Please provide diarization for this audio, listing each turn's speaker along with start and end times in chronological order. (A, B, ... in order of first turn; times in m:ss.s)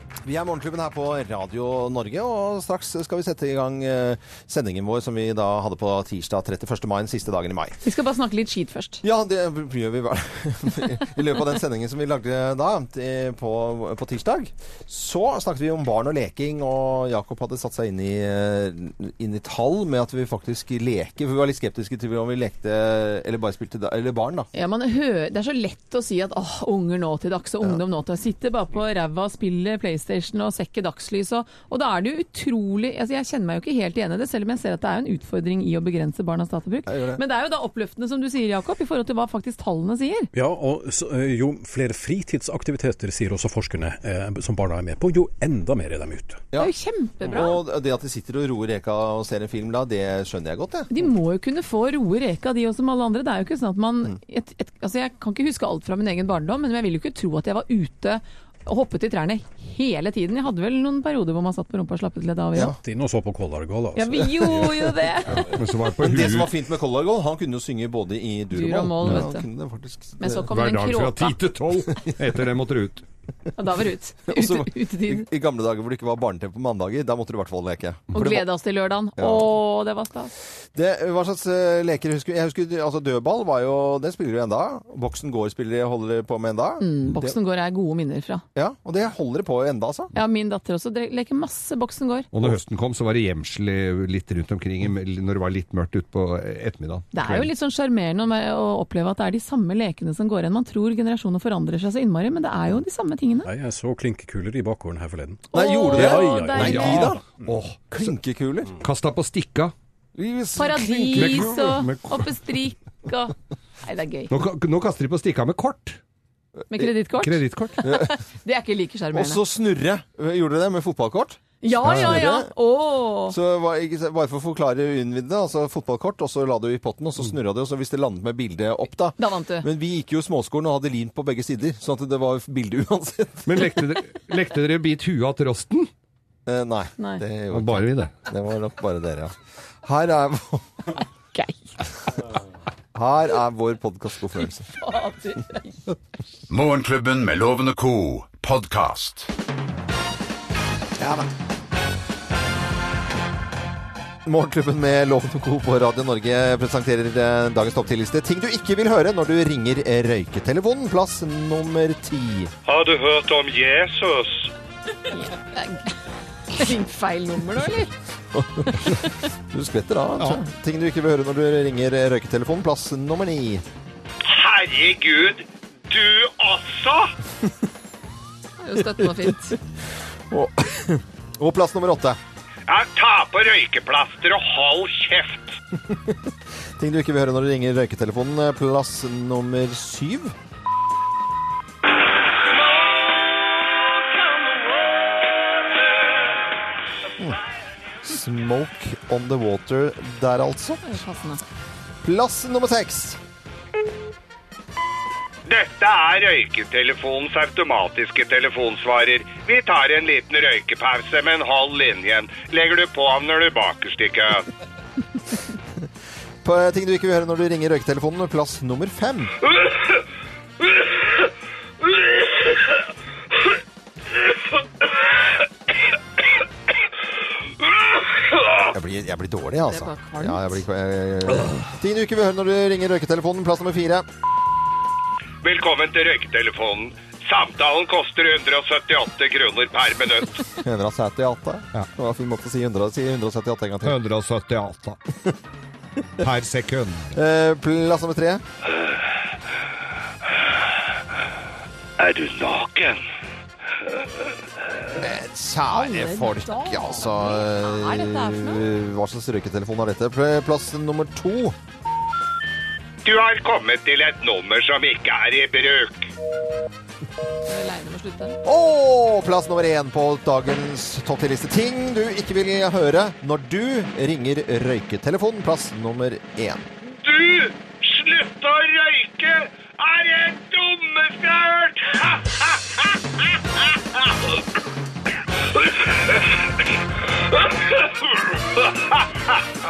0:00.2-0:07.8 A
0:07.8-0:09.0 B
0:09.0-0:24.5 A
0:24.5-0:40.3 B
0:36.9-0:37.2 A
0:40.3-0:46.4 C
0:46.5-0:50.9 A
0:46.6-0:47.6 B
0:50.9-1:02.7 B
1:02.8-1:04.8 C
1:04.0-1:05.4 B
1:05.5-1:06.5 D
1:06.0-1:10.4 A
1:08.5-1:09.4 B
1:10.2-1:11.3 B
1:10.5-1:13.0 D
1:13.6-1:15.3 B
1:14.3-1:18.5 A
1:18.1-1:20.3 B
1:19.2-1:19.5 A
1:20.7-1:27.4 A
1:26.8-1:28.4 B
1:28.5-1:30.1 A
1:30.1-1:32.3 B
1:32.3-1:37.5 D
1:37.1-1:43.5 B
1:43.4-1:47.1 C
1:45.5-1:47.1 B
1:45.5-1:47.2 A
1:46.6-1:48.0 D
1:47.9-1:48.7 A
1:48.8-1:49.7 D
1:50.2-1:51.5 A
1:50.6-1:54.3 B
1:51.1-1:52.3 D
1:54.3-1:56.0 D
1:56.7-1:59.4 B
1:57.2-1:57.8 D
1:57.8-1:58.1 A
1:59.1-2:02.5 A
2:01.6-2:03.4 B
2:03.3-2:13.6 A
2:09.2-2:09.7 B
2:13.4-2:15.9 D
2:16.4-2:20.6 A
2:17.5-2:18.1 D
2:22.9-2:24.7 A
2:24.8-2:25.8 B
2:26.5-2:29.3 E
2:31.0-2:31.3 A
2:34.2-2:42.5 A
2:42.6-2:44.5 F
2:45.1-2:45.9 B
2:46.5-2:47.9 B
2:48.3-2:53.6 A
2:48.8-2:49.1 B
2:54.2-2:57.1 F
2:58.6-2:59.6 B
2:59.0-2:59.5 A
3:00.3-3:02.2 A
3:02.7-3:05.6 F
3:05.8-3:10.3 A
3:14.2-3:14.8 F
3:18.0-3:21.0 A
3:20.8-3:21.4 B
3:22.0-3:23.2 A
3:25.4-3:34.4 F
3:36.4-3:39.3 A
3:48.0-3:48.6 F
3:48.7-3:54.0 A
3:49.7-3:50.6 B
3:55.4-4:00.4 F
4:00.6-4:04.0 A
4:03.8-4:05.0 D
4:06.2-4:07.1 D
4:07.1-4:08.4 A
4:12.0-4:13.0 F
4:15.0-4:21.6 A
4:15.7-4:18.6 B
4:23.0-4:26.1 F
4:27.4-4:28.4 B
4:28.4-4:36.6 A
4:36.9-4:42.9 F
4:43.6-4:44.2 F
4:45.8-4:46.3 F
4:47.3-4:49.1 F